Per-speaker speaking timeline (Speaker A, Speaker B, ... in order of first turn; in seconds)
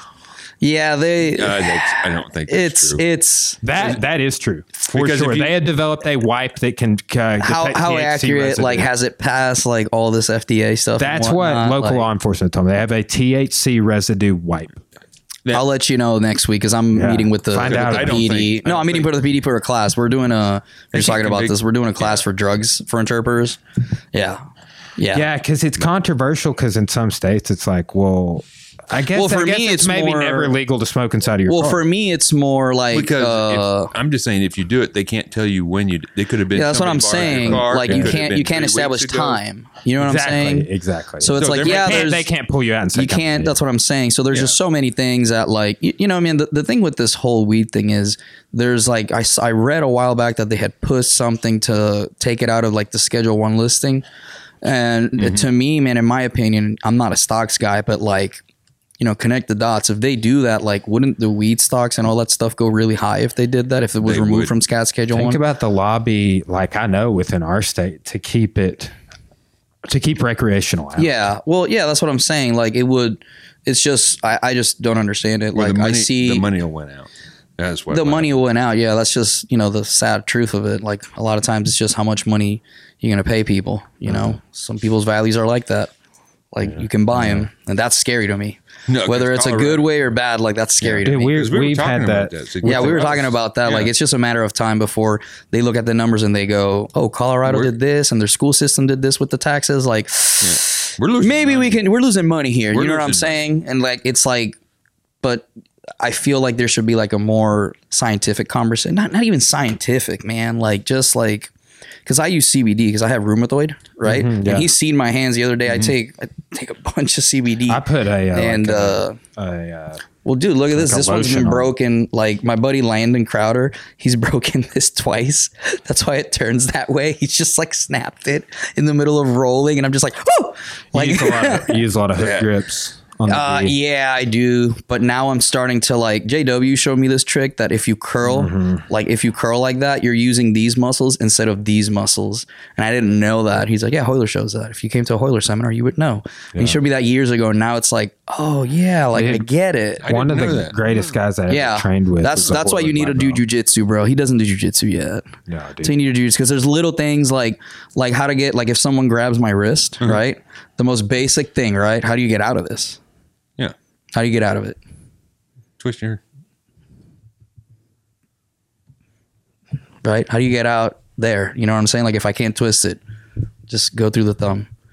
Speaker A: 0.6-3.6, 7.4-12.1, 15.5-23.6, 24.1-24.4, 25.0-25.3, 29.1-30.5, 31.5-33.9, 36.5-40.7, 41.2-42.3, 42.9-54.0, 54.6-58.4, 59.0-65.4, 71.0-76.4, 77.9-85.9, 86.5-91.4, 92.6-104.6, 105.2-105.5, 106.0-111.5, 112.0-119.2, 120.2-131.8, 133.2-150.1, 151.5-155.3, 155.8-163.0, 164.1-164.8, 170.0-173.0, 173.7-174.7
Speaker B: 1.3-3.0, 4.9-5.6, 17.6-19.2, 20.9-22.2, 32.9-39.4, 41.4-42.1, 55.2-55.4, 64.0-64.5, 75.5-78.4, 88.9-89.9, 90.8-93.9, 97.5-97.7, 100.4-101.8, 102.7-103.4, 132.2-132.5, 150.0-151.1, 165.8-166.2
Speaker C: 3.6-8.9, 11.0-14.8, 16.9-18.3, 25.1-31.8, 37.2-38.2, 40.0-43.5, 65.1-68.9, 69.8-71.2, 86.6-87.5, 91.0-93.2, 114.0-114.7, 117.7-120.0, 120.7-121.7, 130.9-133.7, 138.2-138.8, 146.5-146.8, 149.1-149.5, 150.1-153.4, 155.5-155.9